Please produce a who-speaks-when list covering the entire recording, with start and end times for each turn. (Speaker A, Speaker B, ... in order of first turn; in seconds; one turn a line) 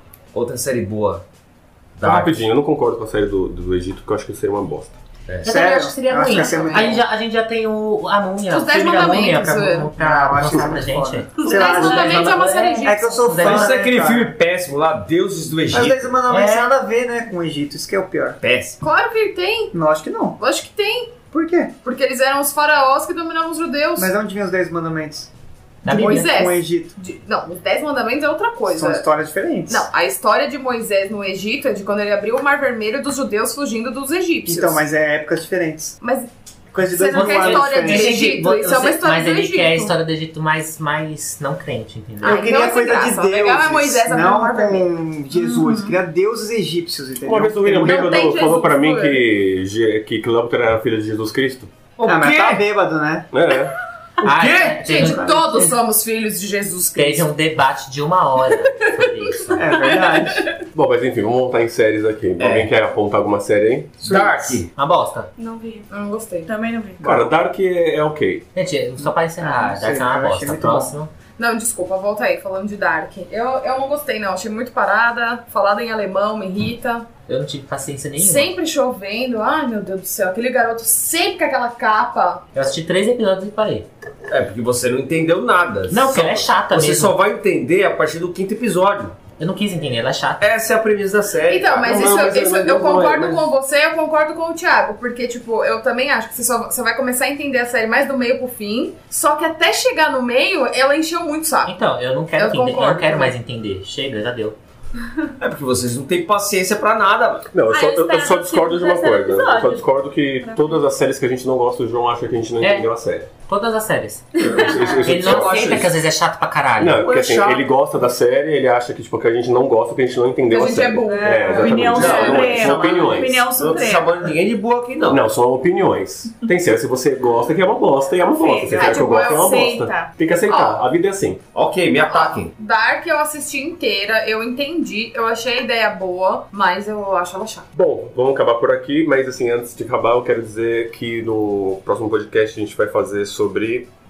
Speaker A: 0.3-1.2
Speaker A: 2.0-2.4
Speaker B: 2.0-5.0
Speaker A: 5.3-5.5
Speaker C: 5.4-7.0
Speaker D: 5.4-13.8
Speaker E: 6.3-7.0
Speaker E: 8.5-9.9
Speaker C: 10.0-14.3
Speaker E: 11.4-13.3
Speaker A: 13.4-16.2
Speaker C: 15.7-18.4
Speaker D: 16.3-16.7
Speaker A: 18.4-18.8
Speaker E: 18.8-19.7
Speaker C: 19.7-20.4
Speaker E: 20.4-21.2
Speaker C: 21.3-21.7
Speaker E: 21.8-24.1
Speaker C: 24.0-25.3
Speaker D: 25.8-26.3
Speaker E: 25.9-29.0
Speaker C: 25.9-27.0
Speaker C: 28.7-29.9
Speaker E: 29.7-34.8
Speaker C: 34.5-36.0
Speaker E: 36.0-39.9
Speaker C: 36.7-38.3
Speaker D: 37.1-42.5
Speaker E: 42.2-44.9
Speaker C: 42.2-48.1
Speaker F: 45.4-45.9
Speaker B: 47.2-51.8
Speaker E: 47.8-49.2
Speaker A: 52.0-52.6
Speaker C: 52.0-53.3
Speaker B: 53.3-53.7
Speaker D: 54.2-55.8
Speaker A: 54.2-54.8
Speaker E: 54.8-57.3
Speaker C: 54.9-55.4
Speaker D: 57.0-59.7
Speaker E: 58.8-59.0
Speaker C: 59.5-60.5
Speaker E: 59.7-60.5
Speaker B: 60.7-64.0
Speaker A: 62.4-62.7
Speaker C: 64.0-64.6
Speaker A: 64.0-64.7
Speaker D: 64.7-65.3
Speaker G: 65.4-65.9
Speaker E: 65.9-66.5
Speaker F: 66.5-67.0
Speaker C: 67.0-67.3
Speaker B: 67.0-68.5
Speaker D: 68.5-71.1
Speaker C: 69.0-70.9
Speaker E: 71.4-77.1
Speaker D: 77.3-78.5
Speaker E: 78.2-82.4
Speaker D: 82.5-83.9
Speaker A: 84.3-89.2
Speaker D: 85.9-87.2
Speaker D: 89.4-90.5
Speaker A: 90.4-93.5
Speaker E: 91.5-101.7
Speaker D: 101.7-104.6
Speaker E: 102.4-103.3
Speaker A: 105.4-107.5
Speaker B: 107.5-113.3
Speaker G: 107.7-109.8
Speaker D: 112.6-112.9
Speaker D: 113.5-114.4
Speaker B: 114.4-115.8
Speaker A: 114.5-115.9
Speaker G: 114.5-114.8
Speaker D: 115.0-117.0
Speaker B: 116.8-123.5
Speaker A: 117.0-117.7
Speaker E: 120.5-122.6
Speaker F: 121.1-124.3
Speaker A: 121.9-125.2
Speaker B: 125.1-131.4
Speaker F: 128.3-130.2
Speaker E: 128.7-129.6
Speaker E: 130.5-130.8
Speaker A: 131.5-132.5
Speaker E: 132.1-137.7
Speaker B: 137.7-143.9